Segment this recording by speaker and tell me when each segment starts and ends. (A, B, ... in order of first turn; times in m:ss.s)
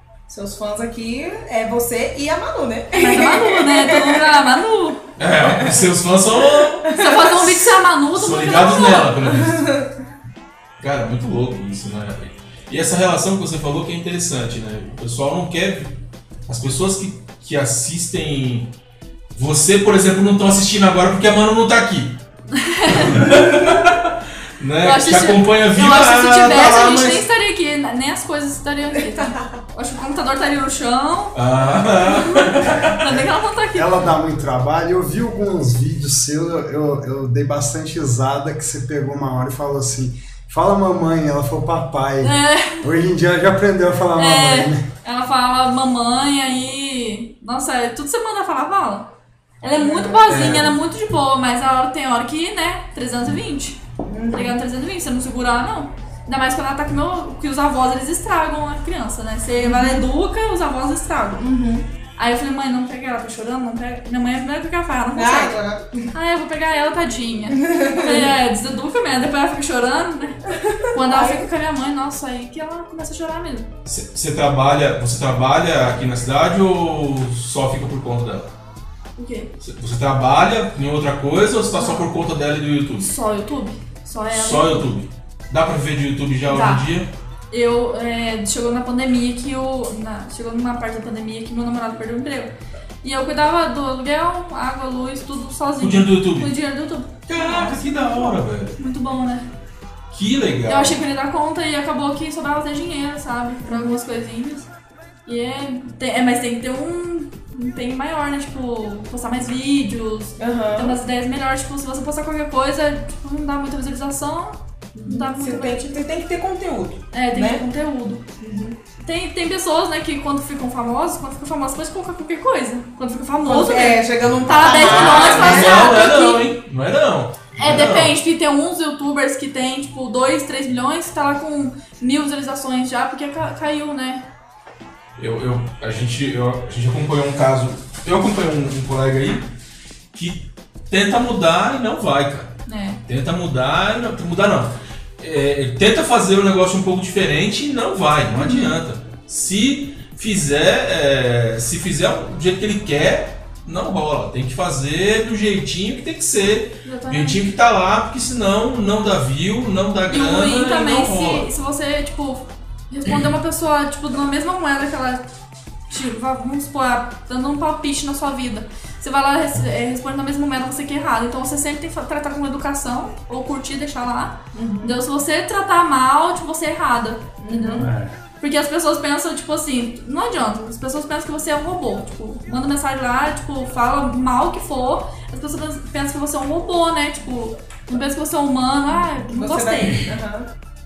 0:00.3-0:04.4 A
0:02.9-0:05.0 B
0:05.2-0:06.9 C
0:05.4-0:07.7 A
0:06.9-0:09.1 B
0:08.1-0:09.8 C
0:09.2-0:09.9 A
0:10.8-0:18.7 C
0:19.4-0:22.2 C
0:22.5-0:23.4 B
0:22.9-0:27.2 C
0:24.8-0:31.4 B
0:31.4-0:33.0 C
0:32.0-0:34.0 B
0:33.0-0:44.9 D
0:42.2-0:42.9 B
0:44.2-0:49.1 B
0:49.6-0:53.8 B
0:49.7-0:50.7 A
0:54.1-0:54.6 A
0:54.3-1:01.4 B
0:59.6-1:00.0 A
1:01.4-1:01.9 A
1:02.2-1:05.6 B
1:05.2-1:06.1 A
1:06.1-1:13.7 B
1:07.5-1:08.3 A
1:10.7-1:11.5 A
1:13.9-1:18.5 C
1:19.2-1:19.5 B
1:19.6-1:23.1 C
1:21.8-1:22.1 B
1:23.0-1:24.9 B
1:24.3-1:27.1 C
1:26.5-1:26.9 B
1:27.5-1:39.5 B
1:35.8-1:36.5 C
1:37.3-1:38.8 C
1:40.1-1:41.0 C
1:40.7-1:44.7 B
1:43.7-1:44.0 A
1:45.3-1:55.9 B
1:50.4-1:51.0 A
1:55.0-1:57.6 A
1:57.1-1:58.2 B
1:58.4-1:58.8 A
1:59.0-2:06.5 B
2:03.4-2:05.9 A
2:04.7-2:08.1 C
2:07.6-2:14.2 B
2:15.2-2:19.5 C
2:20.1-2:22.5 C
2:22.7-2:23.0 B
2:23.1-2:41.5 C
2:28.4-2:28.7 B
2:36.8-2:37.4 B
2:40.1-2:45.2 B
2:45.9-3:10.1 B
2:54.5-2:55.0 A
2:57.4-2:57.9 A
2:57.8-2:58.2 D
3:09.3-3:10.5 A